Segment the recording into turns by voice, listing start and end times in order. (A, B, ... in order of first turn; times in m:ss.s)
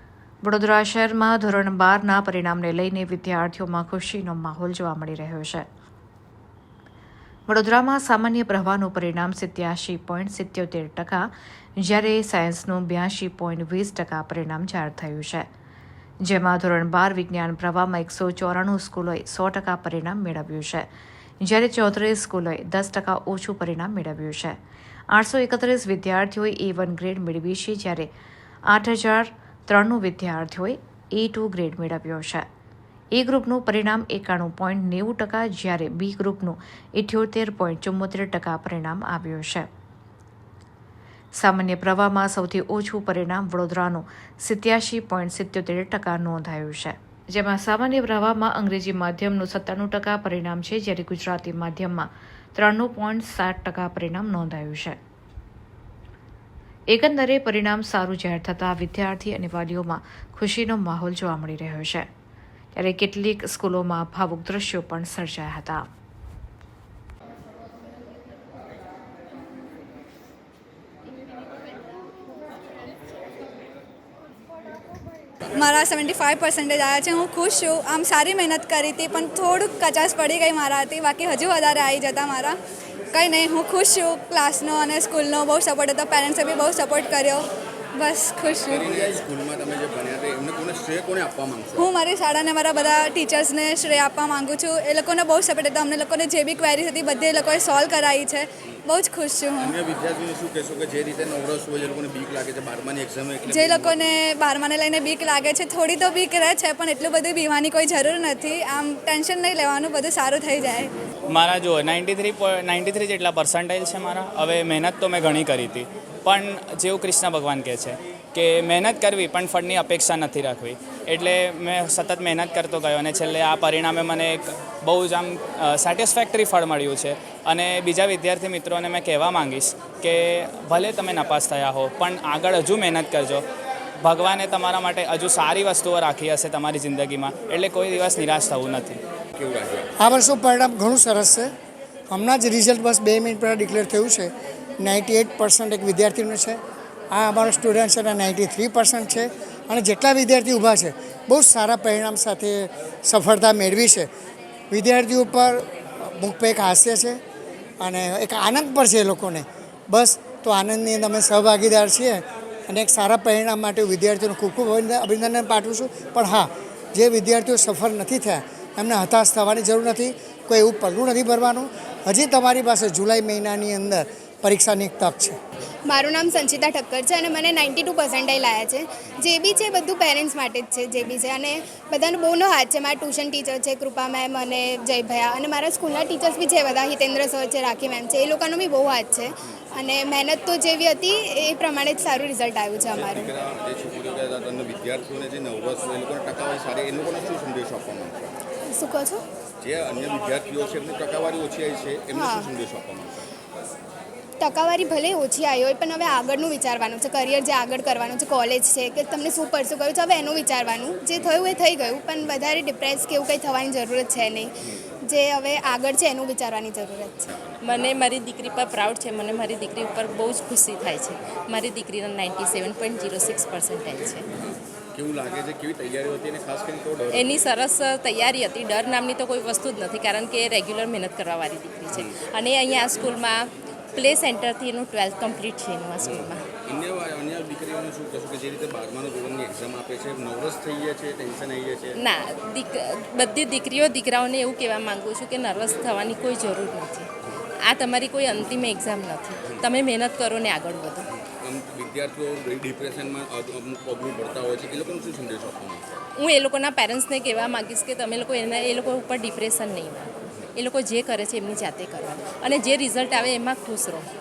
0:00.4-0:05.7 A
0:07.5-0:11.3 A
0:11.8-0:15.5 A
0:16.2-0:20.9 A
0:21.4-0:24.6 A
0:25.1-0:28.1 A
0:28.7-0:32.4 A
0:33.1-0:39.7 A
0:41.4-0:55.0 A
0:56.9-1:02.1 A
1:02.8-1:05.8 A
1:15.5-1:22.6 B
1:23.1-1:27.4 B
1:28.0-1:28.9 B
1:28.7-1:31.9 C
1:31.8-1:39.7 B
1:39.6-1:44.2 C
1:43.5-1:50.9 B
1:51.3-2:13.4 D
2:14.0-2:19.0 D
2:19.4-2:19.9 C
2:20.0-2:21.5 E
2:22.1-2:26.6 E
2:27.1-2:34.1 E
2:34.7-2:37.2 E
2:37.8-2:55.4 E
2:55.9-3:13.3 F
3:12.9-3:18.4 C
3:18.7-3:19.2 F
3:19.6-3:23.3 C
3:22.1-3:22.5 F
3:24.4-3:37.3 F
3:37.3-3:37.6 C
3:37.6-3:44.2 G
3:44.4-3:47.5 C
3:47.1-3:56.4 G
3:56.0-4:02.0 C
4:02.0-4:07.1 G
4:07.7-4:11.0 G
4:11.2-4:16.0 C
4:16.2-4:24.1 G